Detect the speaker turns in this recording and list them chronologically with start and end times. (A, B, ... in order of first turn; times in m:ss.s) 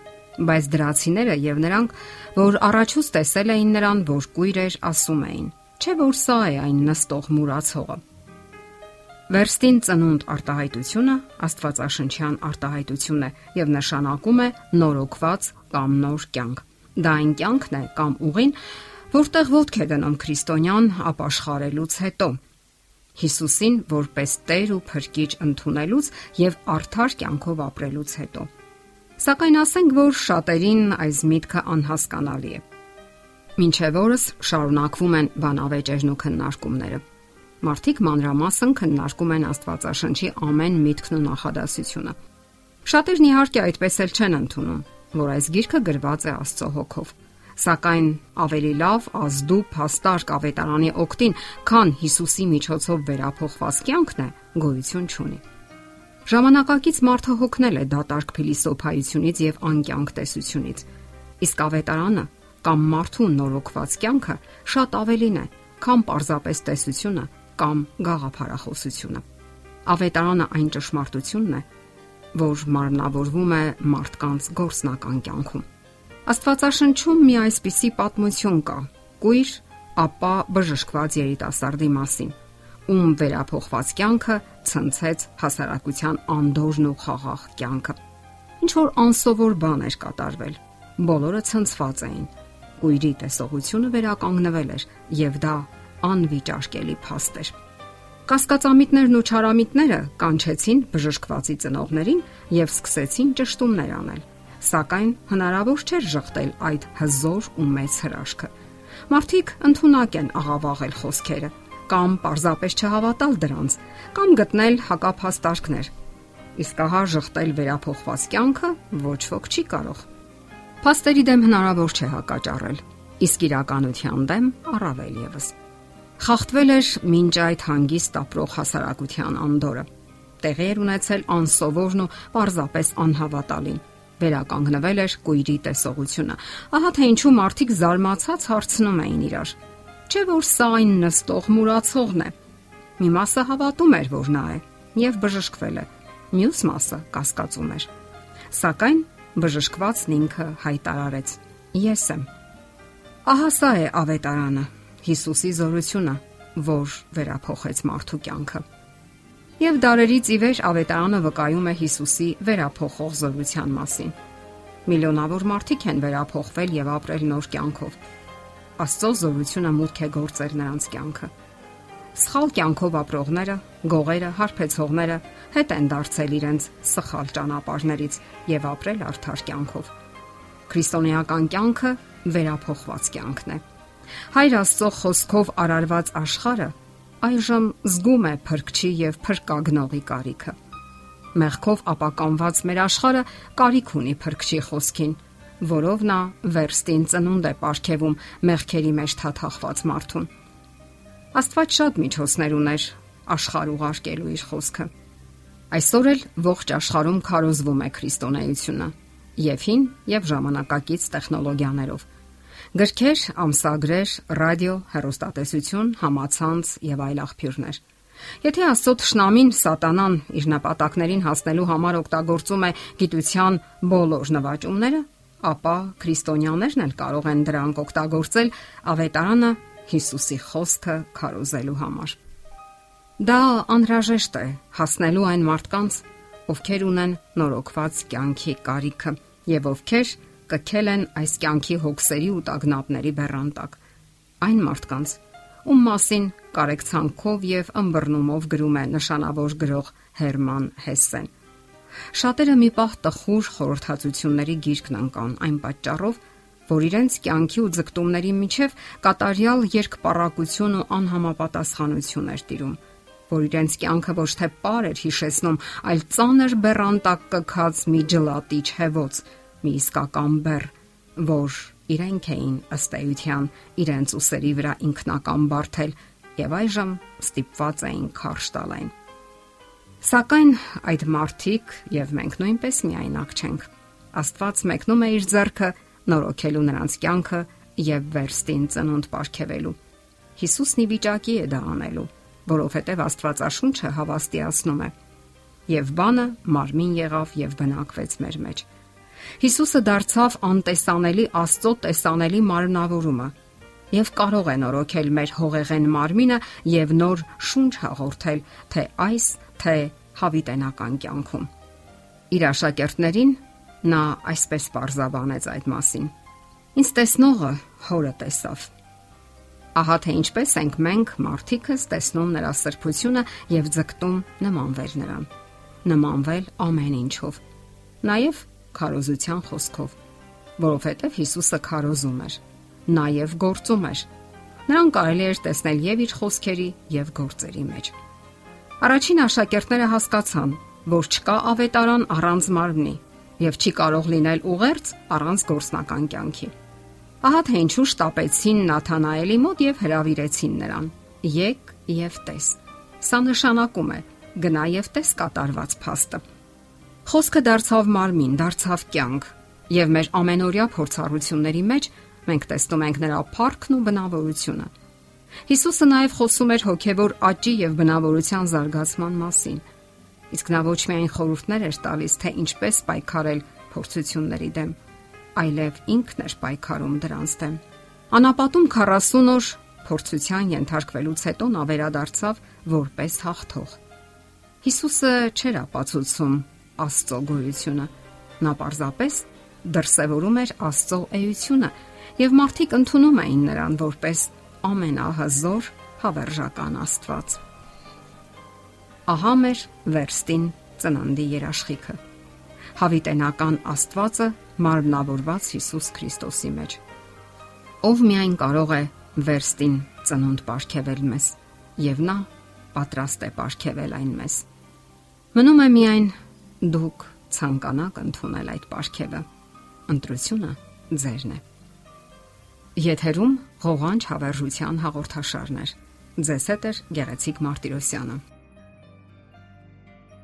0:00.4-0:08.0 A
0:09.3-0:18.6 A
0:19.1-0:22.4 A
0:23.2-0:28.5 A
0:29.2-0:32.6 A
0:33.6-0:37.0 A
0:37.6-0:42.2 A
0:42.8-0:55.4 A
0:56.2-1:00.8 A
1:01.4-1:09.2 A
1:09.8-1:11.6 A
1:12.3-1:15.6 A
1:16.2-1:22.3 A
1:22.9-1:28.0 A
1:28.6-1:37.5 A
1:38.3-1:48.5 A
1:49.1-1:55.9 A
1:56.6-2:00.0 A
2:00.8-2:05.5 A
2:06.2-2:09.8 A
2:10.4-2:19.6 A
2:20.1-2:22.3 A
2:23.0-2:27.9 A
2:28.5-2:32.3 A
2:33.2-2:38.6 A
2:39.6-2:44.1 A
2:44.8-2:48.0 A
2:48.8-2:51.3 A
2:52.1-2:59.9 A
3:00.7-3:03.6 A
3:04.3-3:10.5 A
3:11.3-3:20.3 A
3:21.3-3:24.9 A
3:25.7-3:32.0 A
3:32.7-3:37.8 A
3:38.4-3:52.2 A
3:53.2-4:03.8 A
4:04.4-4:11.3 A
4:12.1-4:38.9 A
4:40.0-4:49.8 A
4:50.4-4:54.9 A
4:55.7-4:58.6 A
4:59.4-5:03.3 A
5:03.9-5:11.5 A
5:12.3-5:16.1 A
5:16.7-5:18.7 A
5:19.7-5:25.3 A
5:25.8-5:27.4 A
5:28.0-5:29.9 A
5:30.6-5:34.1 A
5:34.7-5:37.9 A
5:38.8-5:46.5 A
5:47.2-5:56.2 A
5:57.0-6:04.7 A
6:05.5-6:09.6 A
6:10.3-6:14.8 A
6:15.4-6:23.8 A
6:24.6-6:37.4 A
6:39.1-6:42.0 A
6:42.8-6:46.8 A
6:47.8-6:54.4 A
6:55.3-6:59.2 A
6:59.9-7:01.4 A
7:02.8-7:08.2 A